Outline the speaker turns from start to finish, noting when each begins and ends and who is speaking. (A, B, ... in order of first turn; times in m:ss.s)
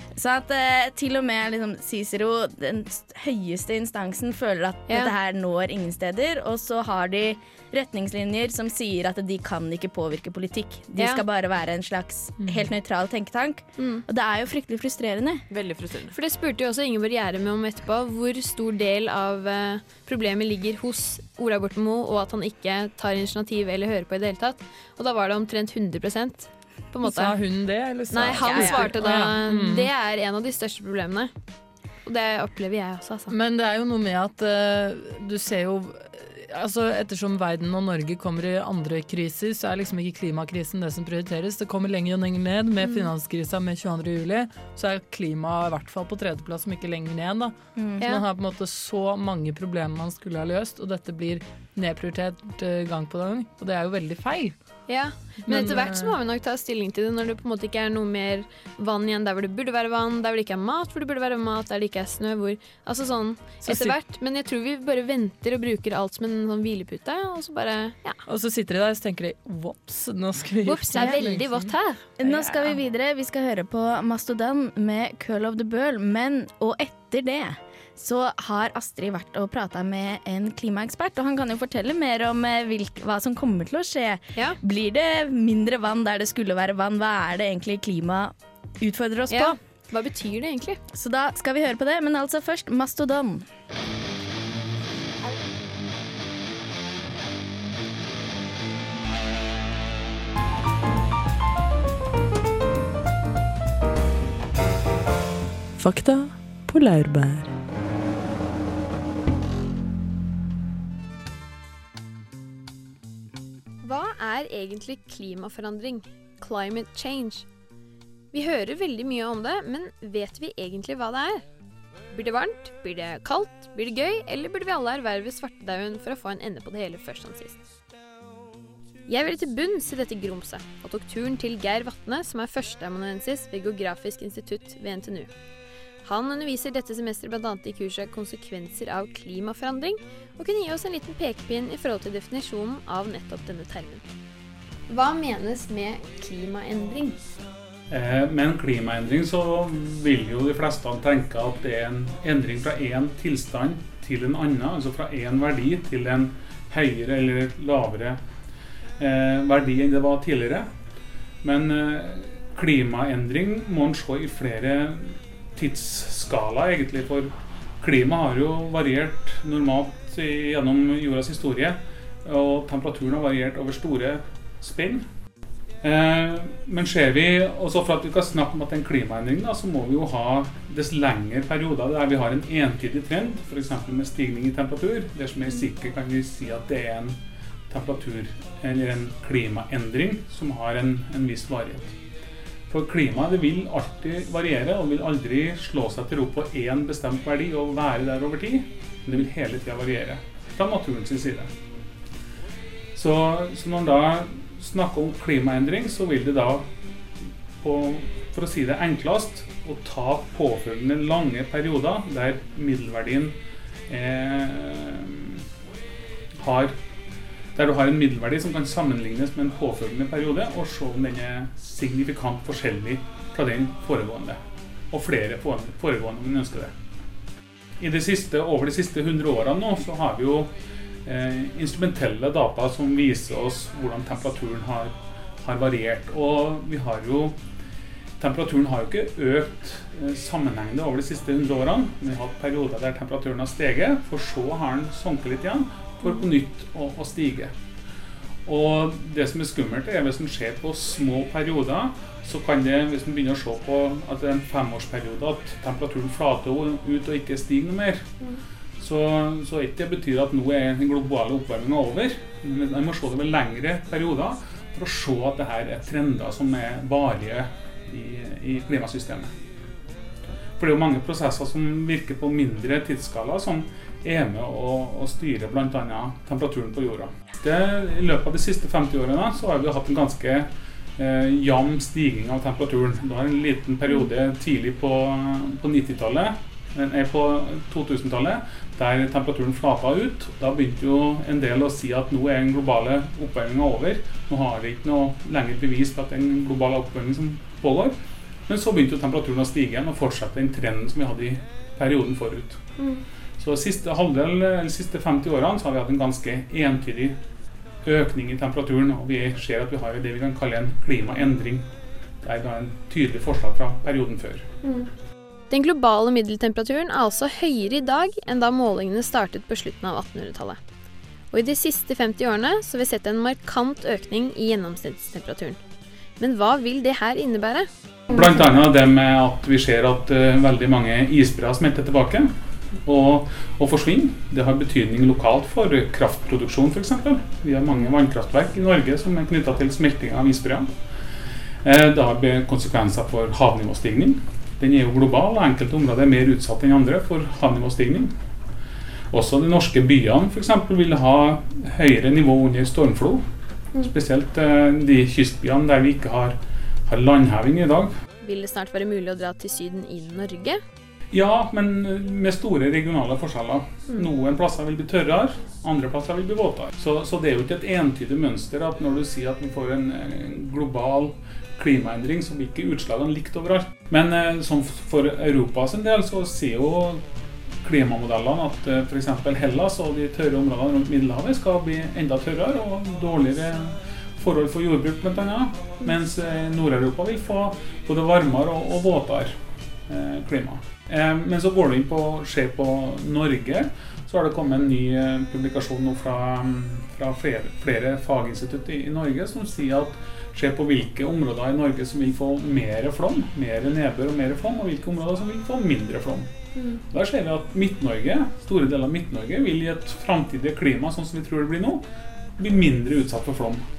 0:00.1-0:15.4 A
0:04.9-0:05.1 B
0:11.0-0:11.2 B
0:13.8-0:14.0 B
0:15.5-0:16.1 C
0:16.1-0:27.4 B
0:27.0-0:29.9 D
0:28.1-0:31.3 B
0:28.4-0:28.9 A
0:32.0-0:33.3 B
0:33.3-0:54.6 D
0:42.8-0:43.1 B
0:47.8-0:48.0 A
0:54.9-1:08.2 B
0:55.4-0:56.2 D
1:03.6-1:04.0 D
1:08.3-1:12.8 D
1:10.6-1:12.0 B
1:12.2-1:29.6 A
1:29.3-1:30.8 B
1:30.9-1:33.4 A
1:45.8-1:47.5 C
1:53.8-1:57.5 B
1:58.3-2:01.4 B
2:02.1-2:07.6 B
2:09.1-2:15.3 B
2:16.0-2:24.1 B
2:24.9-2:27.2 B
2:27.9-2:38.2 E
2:39.0-2:40.7 E
2:41.4-2:55.1 E
2:55.8-3:07.2 E
3:07.7-3:11.9 E
3:12.7-3:21.5 E
3:22.9-3:26.6 E
3:27.6-3:33.3 E
3:33.9-3:35.4 E
3:36.4-3:36.8 E
3:37.5-3:44.4 E
3:44.9-3:46.7 E
3:47.8-3:50.5 E
3:51.0-3:57.4 E
3:58.2-4:07.5 E
4:08.4-4:18.1 E
4:18.8-4:29.3 E
4:30.6-5:02.7 E
5:02.8-5:03.0 B
5:03.4-5:07.2 E
5:07.8-5:11.6 E
5:12.2-5:14.5 E
5:14.6-5:14.9 B
5:15.5-5:20.6 B
5:21.3-5:25.6 B
5:26.2-5:28.3 B
5:28.1-5:40.7 E
5:41.6-5:48.1 E
5:49.1-5:53.2 E
5:53.8-5:57.9 E
5:58.2-6:00.6 B
6:01.1-6:17.0 E
6:17.6-6:51.8 E
6:46.5-6:46.8 B
6:52.4-6:53.6 E